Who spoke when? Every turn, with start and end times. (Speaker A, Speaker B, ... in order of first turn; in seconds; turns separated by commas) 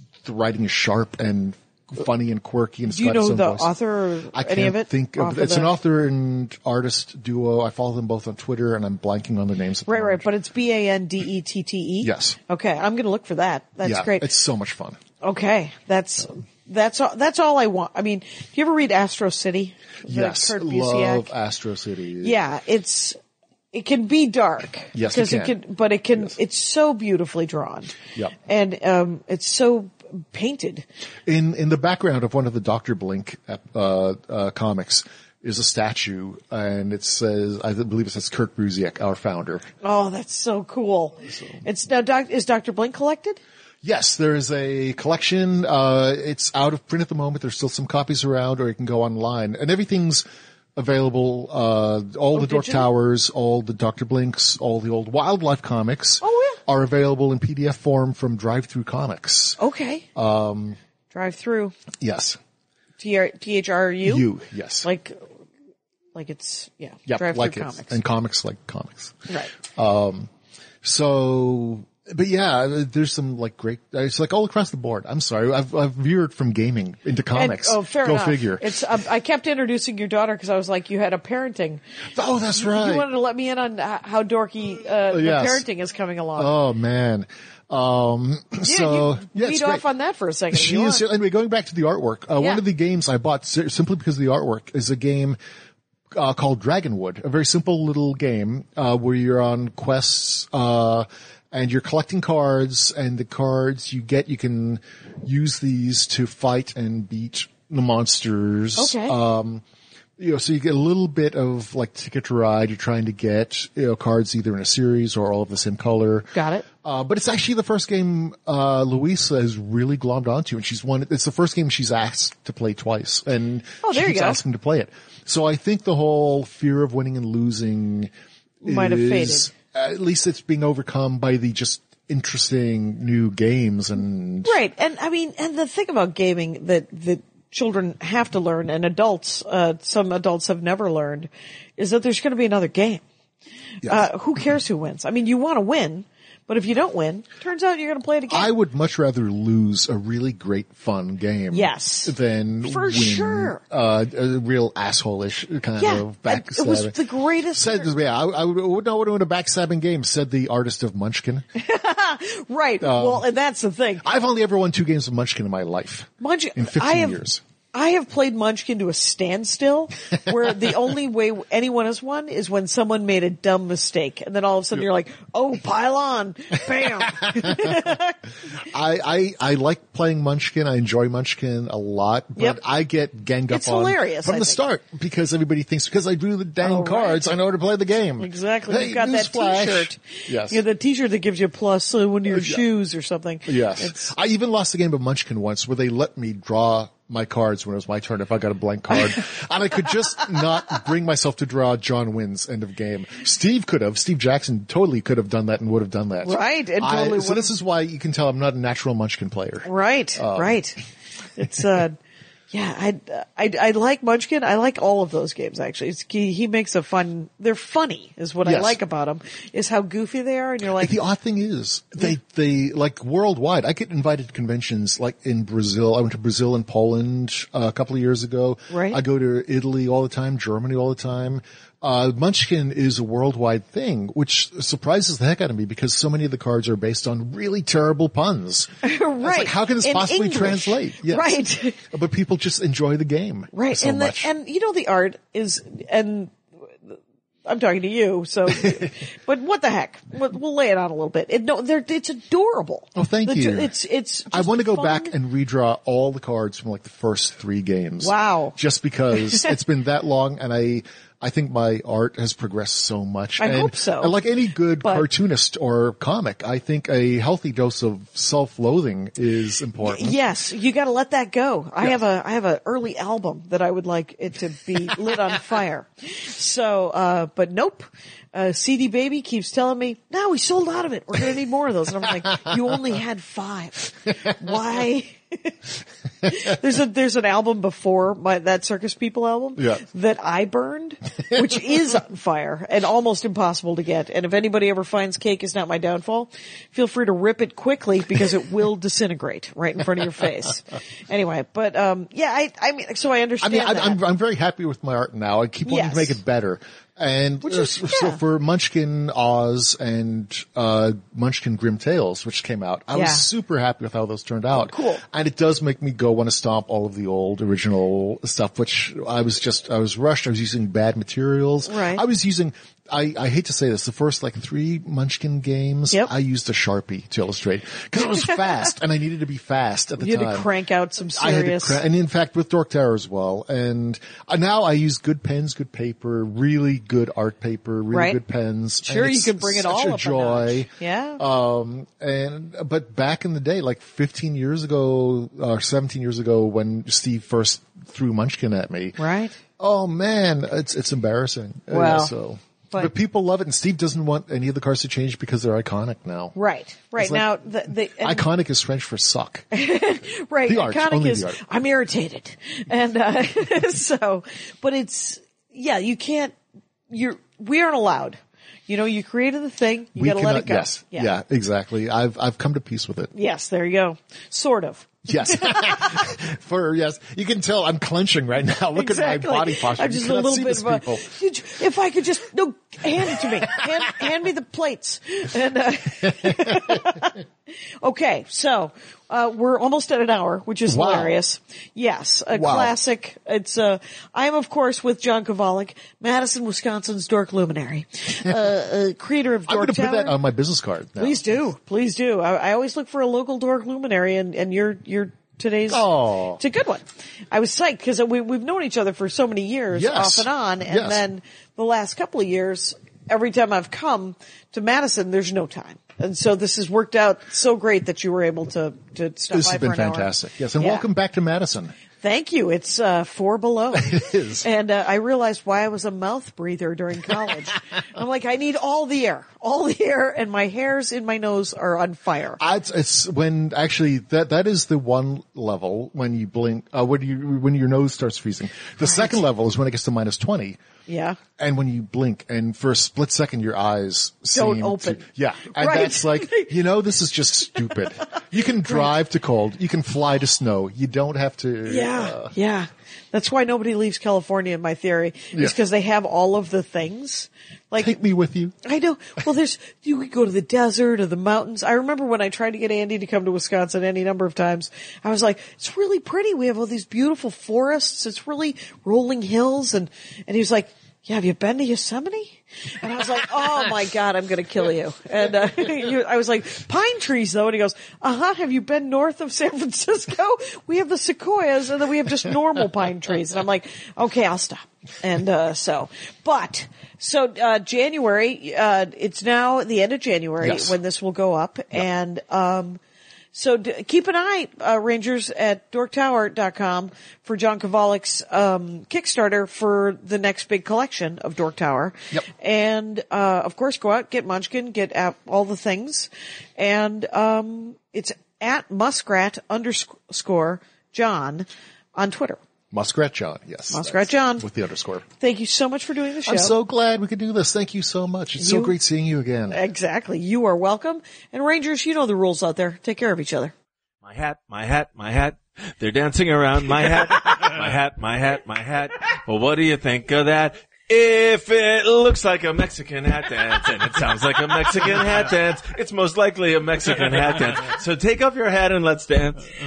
Speaker A: 0.2-3.7, Speaker B: 2.9-5.7, Speaker A: 4.3-10.3, Speaker B: 9.9-14.3, Speaker A: 12.0-12.4, Speaker A: 13.8-15.0, Speaker B: 15.2-21.3, Speaker A: 20.1-22.4, Speaker B: 22.2-23.2, Speaker B: 23.7-30.9, Speaker A: 24.9-25.6, Speaker A: 31.3-39.7, Speaker B: 39.8-43.4, Speaker A: 41.3-41.6, Speaker A: 43.8-50.2, Speaker A: 50.8-59.6, Speaker B: 52.4-52.9, Speaker B: 56.2-56.6, Speaker B: 59.6-60.0, Speaker A: 60.1-60.8, Speaker B: 61.1-61.8, Speaker A: 62.0-62.4, Speaker B: 63.0-64.3, Speaker A: 64.0-64.9, Speaker B: 64.8-65.2, Speaker B: 66.1-68.0, Speaker A: 67.1-70.3, Speaker A: 70.8-78.8, Speaker B: 77.3-81.8, Speaker A: 82.1-83.1, Speaker B: 82.6-86.5, Speaker A: 85.1-85.7, Speaker A: 86.4-89.8, Speaker B: 88.6-91.0, Speaker A: 90.5-95.4, Speaker A: 96.1-109.6, Speaker B: 108.8-109.2, Speaker A: 110.2-128.1, Speaker B: 116.3-116.7, Speaker B: 123.8-124.4, Speaker B: 128.6-129.5, Speaker A: 128.7-134.6, Speaker B: 134.4-143.0, Speaker B: 143.8-148.5, Speaker A: 148.3-157.0, Speaker B: 151.5-152.1, Speaker B: 152.7-153.6, Speaker B: 155.8-157.9, Speaker A: 157.6-161.5, Speaker B: 161.6-164.1, Speaker A: 162.8-163.3, Speaker A: 164.0-167.4, Speaker B: 166.2-167.2, Speaker B: 167.7-178.2, Speaker A: 177.3-177.8, Speaker A: 178.7-190.6, Speaker B: 183.5-184.6, Speaker B: 186.6-187.2, Speaker B: 188.2-194.1, Speaker A: 192.3-192.6, Speaker A: 193.5-210.6, Speaker B: 206.2-207.5, Speaker B: 209.7-210.8, Speaker B: 211.4-212.0, Speaker B: 212.5-221.0, Speaker A: 218.4-218.8, Speaker A: 220.8-238.7, Speaker B: 228.7-229.0, Speaker B: 238.8-241.8, Speaker A: 239.2-244.3, Speaker B: 243.5-246.3, Speaker B: 246.9-255.1, Speaker A: 252.9-253.7, Speaker A: 254.3-270.2, Speaker B: 258.0-258.6, Speaker B: 263.4-264.1, Speaker B: 264.8-265.1, Speaker B: 269.8-285.6, Speaker B: 286.2-304.0, Speaker A: 303.4-330.5, Speaker B: 305.7-306.2, Speaker B: 307.5-308.2, Speaker B: 312.9-313.3, Speaker B: 314.5-315.0, Speaker B: 321.6-322.0, Speaker B: 330.0-331.8, Speaker A: 331.2-349.0, Speaker B: 337.9-338.2, Speaker B: 338.8-341.2, Speaker B: 349.0-349.4, Speaker A: 349.6-356.4, Speaker B: 351.7-352.1, Speaker B: 356.4-358.3, Speaker A: 357.0-357.3, Speaker A: 358.0-359.5, Speaker B: 359.5-366.4, Speaker A: 360.4-361.4, Speaker B: 366.9-371.1, Speaker A: 370.0-373.1, Speaker B: 373.1-376.1, Speaker A: 375.1-381.1, Speaker B: 378.8-387.2, Speaker A: 386.1-386.9, Speaker B: 387.8-400.2, Speaker A: 390.7-391.2, Speaker A: 392.3-392.8, Speaker A: 399.5-401.2, Speaker B: 401.0-420.9, Speaker A: 405.7-406.4, Speaker A: 409.7-411.0, Speaker A: 419.3-421.7, Speaker B: 422.0-432.4, Speaker A: 423.8-424.4, Speaker A: 432.4-440.6, Speaker B: 438.9-439.1, Speaker B: 440.9-441.2, Speaker A: 441.4-452.3, Speaker B: 444.3-446.5, Speaker B: 451.6-457.9, Speaker A: 457.8-458.6, Speaker B: 458.6-492.8, Speaker A: 490.4-490.8, Speaker B: 493.3-512.4, Speaker A: 512.7-515.0, Speaker B: 513.7-514.5, Speaker B: 515.2-516.5, Speaker A: 516.3-519.6, Speaker B: 518.4-518.8, Speaker B: 519.5-523.5, Speaker C: 524.0-539.5